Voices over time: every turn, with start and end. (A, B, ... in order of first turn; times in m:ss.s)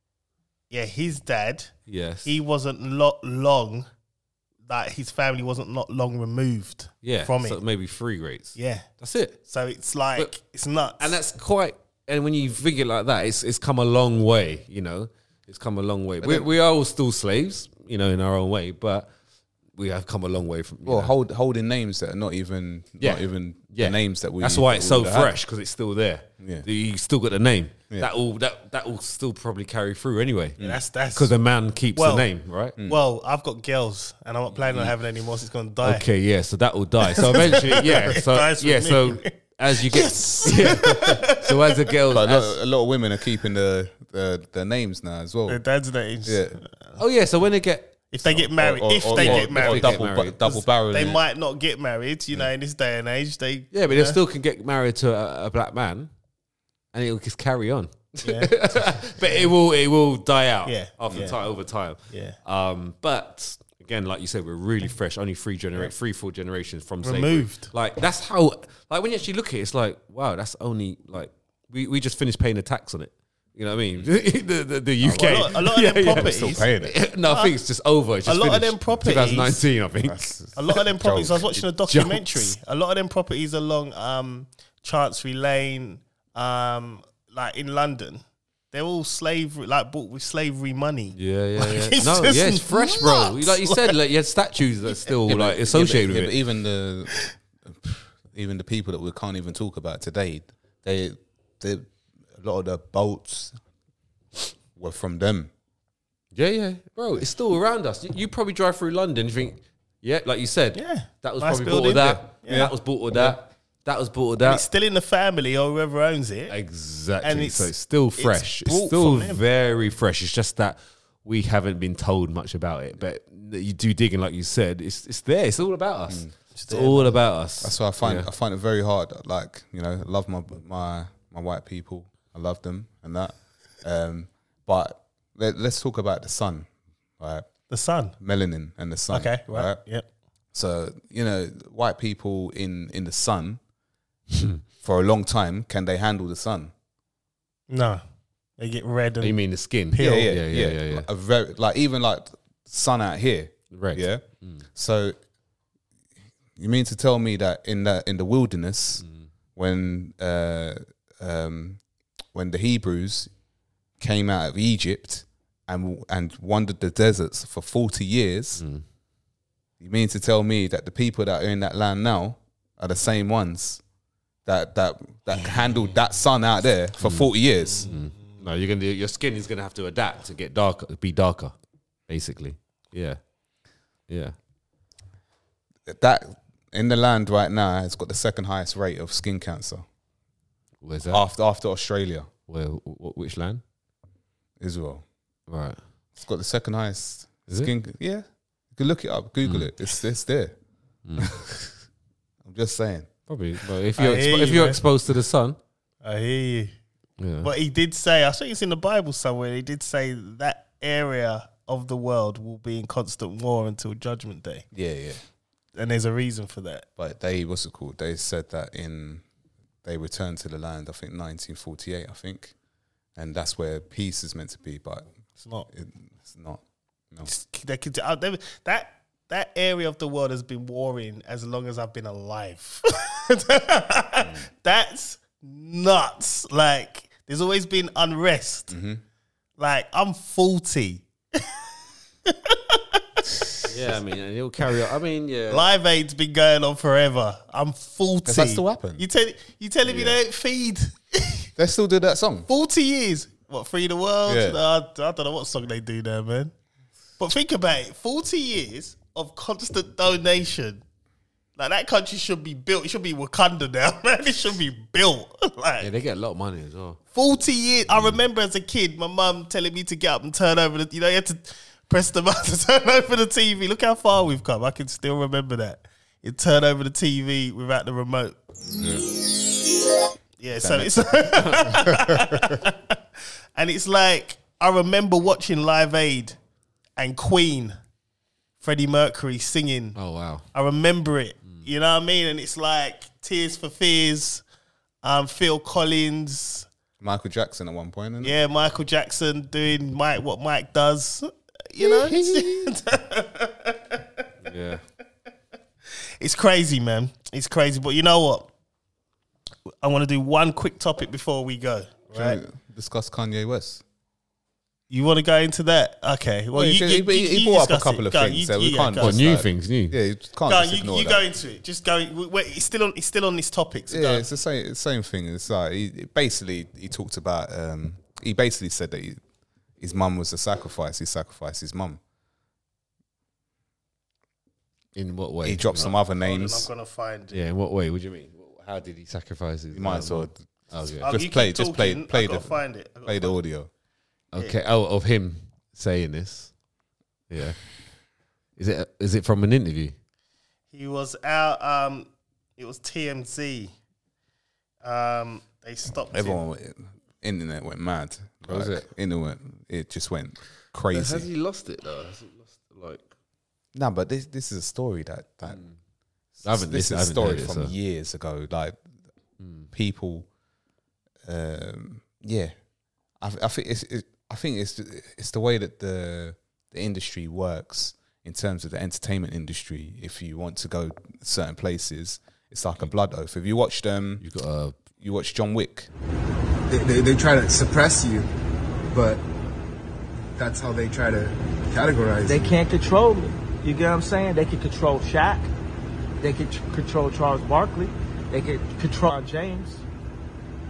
0:00.7-0:01.7 A
0:01.9-0:02.4 B
0:02.2-0:03.9 A
0:04.7-0:07.6 A
0:07.0-0:09.4 B
0:08.6-0:08.8 A
0:09.5-0:11.2 A
0:11.0-0:19.1 B
0:19.8-0:21.1 B
0:20.8-0:25.3 C
0:23.0-0:30.6 B
0:26.4-0:26.6 C
0:30.6-0:31.3 A
0:31.1-0:32.8 B
0:31.9-0:32.3 A
0:32.8-0:36.0 A
0:35.8-0:42.6 B
0:37.1-0:41.8 A
0:42.1-0:45.6 C
0:45.5-0:47.0 A
0:46.2-0:46.6 C
0:47.0-0:48.0 B
0:48.1-0:54.2 A
0:48.5-0:51.2 C
0:49.1-0:50.6 B
0:53.7-0:56.1 B
0:56.9-1:20.3 B
0:58.2-0:58.5 A
0:59.2-0:59.5 A
1:00.6-1:01.4 A
1:02.1-1:02.4 A
1:07.0-1:07.7 A
1:15.0-1:17.0 C
1:15.1-1:16.7 A
1:17.2-1:17.6 A
1:18.2-1:19.6 A
1:20.0-1:21.5 C
1:20.6-1:33.9 A
1:21.9-1:22.5 B
1:31.1-1:36.3 B
1:35.2-1:43.6 C
1:44.8-1:45.5 C
1:46.3-1:54.6 B
1:50.7-1:53.4 A
1:54.4-1:56.5 A
1:56.5-2:08.3 B
1:57.2-1:59.4 A
2:06.5-2:07.2 A
2:07.6-2:17.5 C
2:17.7-2:18.1 A
2:18.2-2:19.8 C
2:19.1-2:20.0 A
2:20.5-2:23.6 C
2:24.3-2:24.6 B
2:24.8-2:26.7 C
2:27.7-2:28.0 A
2:28.6-2:29.4 A
2:29.2-2:31.1 B
2:29.9-2:30.3 A
2:30.0-2:35.2 C
2:33.7-2:34.6 B
2:36.6-2:39.0 C
2:39.0-2:39.3 B
2:39.6-2:41.8 C
2:42.3-2:43.3 C
2:44.0-2:48.6 C
2:48.6-2:48.8 B
2:49.8-2:53.8 C
2:54.4-2:57.9 C
2:57.0-2:57.3 B
2:57.7-2:58.0 A
2:57.8-3:01.5 B
3:02.1-3:03.2 B
3:04.1-3:04.3 B
3:05.9-3:09.8 C
3:10.8-3:11.2 B
3:11.1-3:12.3 C
3:12.5-3:13.6 B
3:14.6-3:15.0 C
3:15.5-3:15.8 B
3:16.2-3:20.6 C
3:19.4-3:19.7 B
3:21.0-3:21.3 B
3:21.2-3:21.6 C
3:22.4-3:23.1 C
3:23.3-3:25.6 B
3:24.0-3:24.8 A
3:26.0-3:26.7 A
3:27.2-3:27.5 B
3:27.4-3:34.6 A
3:34.7-3:35.2 C
3:35.7-3:36.8 A
3:37.0-3:39.2 C
3:39.8-3:42.5 C
3:43.2-3:45.1 C
3:45.4-3:45.7 A
3:45.7-3:47.3 C
3:47.2-3:58.7 A
3:58.7-3:59.0 C
3:59.6-4:01.6 A
4:02.3-4:03.2 A
4:03.7-4:05.7 B
4:05.5-4:11.5 A
4:08.2-4:09.0 C
4:11.6-4:12.5 C
4:12.5-4:16.5 A
4:14.2-4:14.6 C
4:17.2-4:20.8 A
4:21.6-4:25.9 A
4:25.8-4:27.0 B
4:27.1-4:38.4 A
4:40.4-4:43.0 A
4:40.6-4:41.8 C
4:43.6-4:46.4 A
4:47.0-4:47.8 A
4:48.6-4:50.0 A
4:50.0-4:50.4 B
4:50.5-4:54.4 A
4:55.0-4:56.7 A
4:57.0-4:58.3 C
4:58.2-5:04.2 A
5:01.8-5:02.7 C
5:04.4-5:04.8 B
5:06.2-5:08.5 A
5:09.8-5:12.4 A
5:12.1-5:13.8 C
5:14.9-5:19.2 A
5:16.5-5:21.2 C
5:19.0-5:20.0 B
5:20.5-5:24.3 A
5:23.9-5:29.2 C
5:29.8-5:32.0 C
5:34.9-5:35.9 B
5:35.4-5:36.7 C
5:35.8-5:37.4 A
5:37.3-5:41.1 B
5:39.7-5:40.4 C
5:41.0-5:43.4 A
5:41.0-5:43.7 C
5:44.3-5:46.5 B
5:47.3-5:47.6 B
5:48.6-5:49.9 B
5:50.7-5:53.7 A
5:54.8-5:56.4 A
5:56.1-6:01.3 C
5:58.4-5:58.9 B
6:00.9-6:03.1 B
6:03.7-6:05.6 C
6:05.5-6:05.7 B
6:06.4-6:08.8 C
6:06.4-6:07.7 B
6:09.4-6:09.7 B
6:09.7-6:10.3 C
6:11.2-6:12.5 C
6:13.2-6:24.2 C
6:24.2-6:24.8 B
6:25.0-6:25.9 C
6:26.7-6:28.3 D
6:28.9-6:29.2 D
6:30.4-6:32.6 D
6:32.2-6:35.5 E
6:36.2-6:39.8 E